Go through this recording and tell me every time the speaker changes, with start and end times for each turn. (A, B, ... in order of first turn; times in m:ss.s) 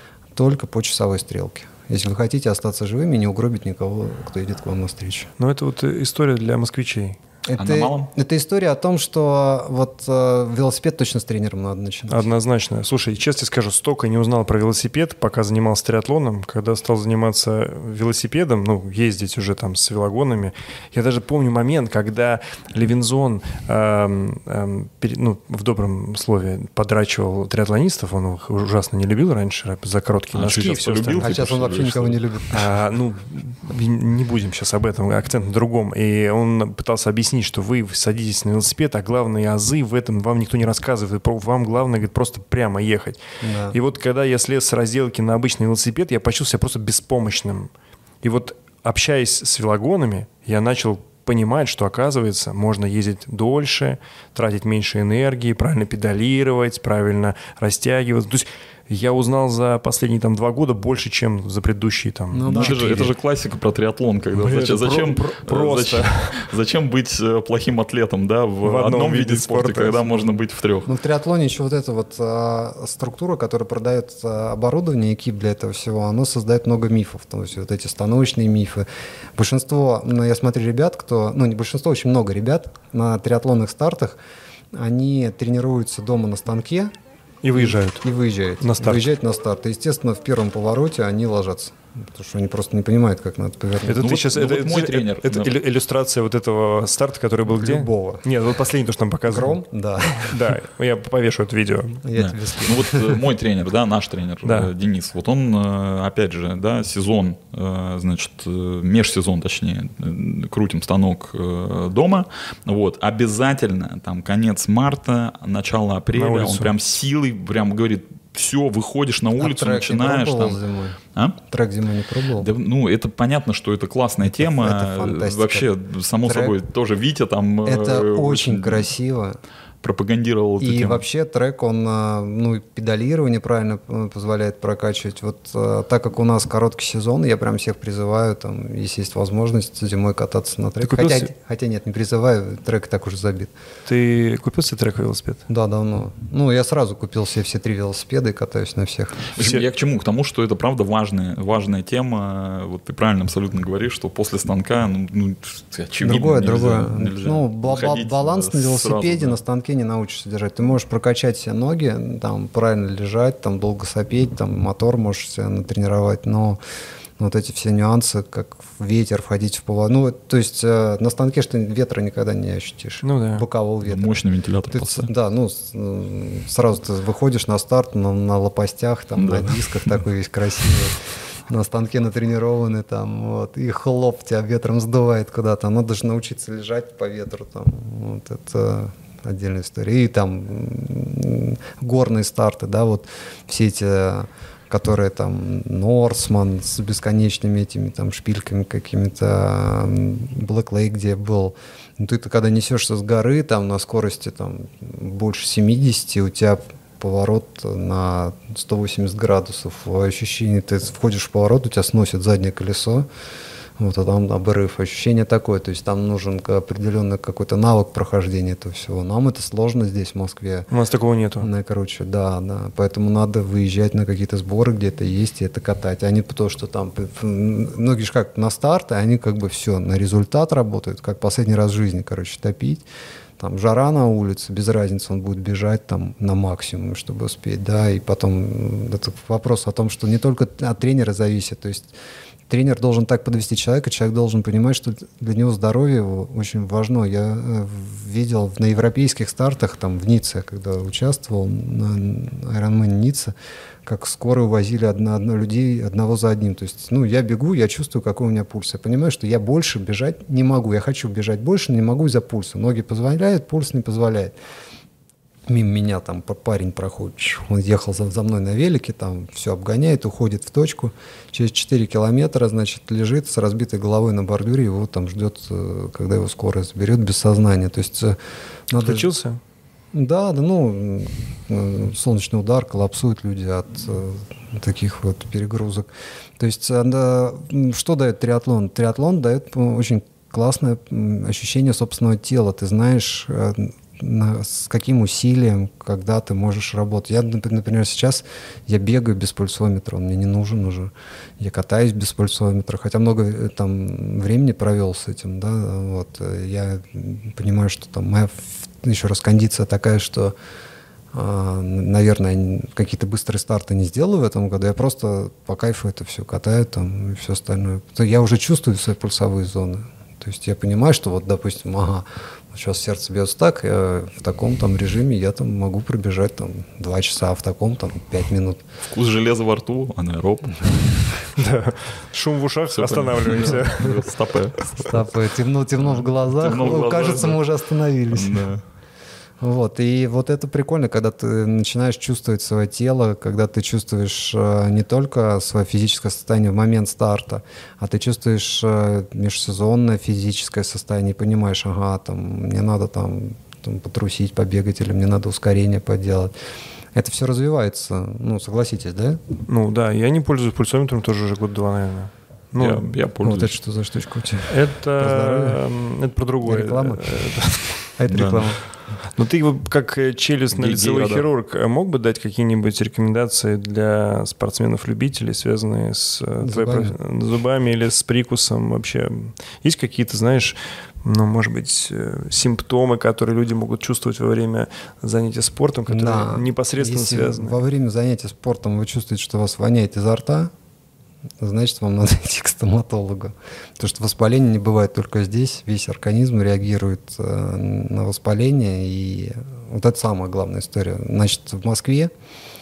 0:00.4-0:05.3 A
0:05.4-0:07.2 B
0:07.5-0:12.3 A
0:07.6-0:08.1 C
0:12.1-0:31.3 B
0:30.3-0:32.2 C
0:31.2-0:32.7 A
0:32.5-0:43.2 B
0:43.4-0:43.8 A
0:43.7-0:47.7 B
0:48.2-1:03.1 B
1:02.3-1:03.0 A
1:02.5-1:10.9 C
1:04.4-1:06.5 B
1:08.6-1:10.3 B
1:10.9-1:24.2 A
1:24.7-1:26.9 A
1:27.4-1:28.0 B
1:27.6-1:34.1 A
1:28.6-1:29.1 B
1:33.8-1:39.6 B
1:33.9-1:35.6 C
1:37.4-1:38.2 A
1:39.3-1:40.5 A
1:40.2-1:42.0 B
1:42.0-1:43.2 A
1:42.2-2:00.6 C
1:44.4-1:44.7 B
1:56.2-1:56.7 B
1:59.4-2:02.5 A
2:02.4-2:08.9 C
2:04.2-2:05.7 A
2:06.2-2:06.6 A
2:07.6-2:09.4 A
2:09.8-2:11.0 C
2:10.6-2:23.5 A
2:20.8-2:21.3 B
2:23.9-2:25.4 B
2:25.5-2:29.3 A
2:29.3-2:39.4 C
2:29.4-2:29.6 B
2:36.0-2:46.6 A
2:47.2-2:54.2 A
2:53.0-2:53.5 B
2:53.8-2:55.1 C
2:54.7-3:33.1 A
2:59.2-2:59.9 C
3:33.8-3:40.7 A
3:40.7-3:41.5 B
3:41.4-3:52.8 A
3:53.4-4:01.9 A
4:02.5-4:13.3 A
4:13.8-4:24.3 A
4:25.5-4:38.2 A
4:38.7-4:39.1 A
4:38.8-4:39.4 B
4:39.9-5:10.4 A
5:11.1-5:28.6 A
5:28.9-5:31.2 C
5:31.4-5:34.1 B
5:32.7-5:34.9 C
5:33.4-5:33.6 A
5:34.8-5:38.5 A
5:35.8-5:37.4 C
5:38.1-5:38.6 C
5:39.4-5:56.3 A
5:57.0-5:59.2 A
5:59.5-6:02.9 B
6:02.6-6:03.6 C
6:03.2-6:05.6 A
6:04.5-6:07.9 B
6:06.4-6:08.6 A
6:08.1-6:08.6 C
6:09.1-6:27.6 B
6:10.5-6:11.3 C
6:16.4-6:17.0 A
6:25.9-6:30.5 A
6:31.4-6:42.1 A